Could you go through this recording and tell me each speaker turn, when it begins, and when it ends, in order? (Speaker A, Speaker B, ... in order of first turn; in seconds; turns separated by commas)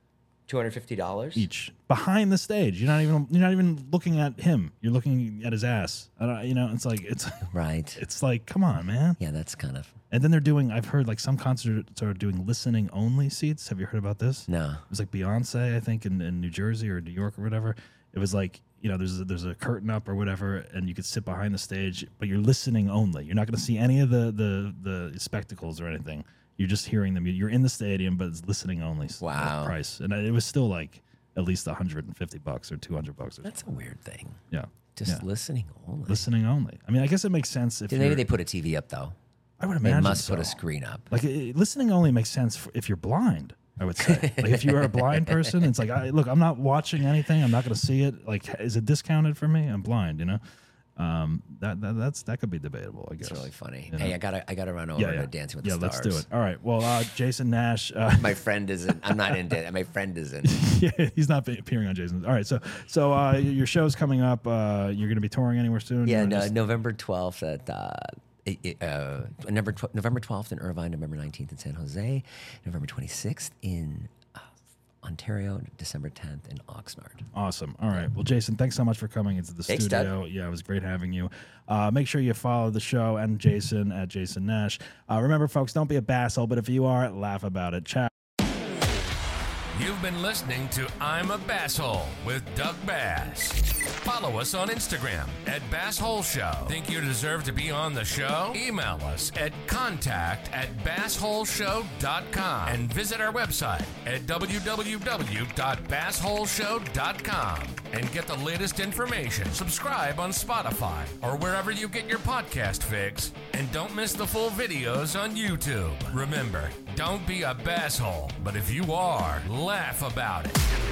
Speaker A: 0.5-1.5, Speaker B: 1.3-9.2, Speaker A: 7.5-8.0, Speaker A: 9.2-9.9, Speaker B: 10.1-33.6, Speaker A: 14.5-14.8, Speaker A: 29.2-29.8, Speaker A: 33.4-34.4, Speaker B: 34.5-35.2, Speaker A: 34.9-36.2, Speaker B: 36.1-38.3, Speaker A: 37.9-39.1, Speaker B: 39.6-40.6, Speaker A: 39.8-41.1, Speaker B: 41.1-50.4, Speaker A: 44.0-45.6, Speaker B: 51.0-54.1, Speaker A: 53.2-56.2, Speaker B: 55.0-59.5, Speaker A: 58.1-60.6, Speaker B: 60.4-66.5, Speaker A: 66.0-74.5, Speaker A: 75.0-77.3, Speaker B: 77.3-88.1, Speaker A: 79.7-80.1, Speaker C: 89.7-120.7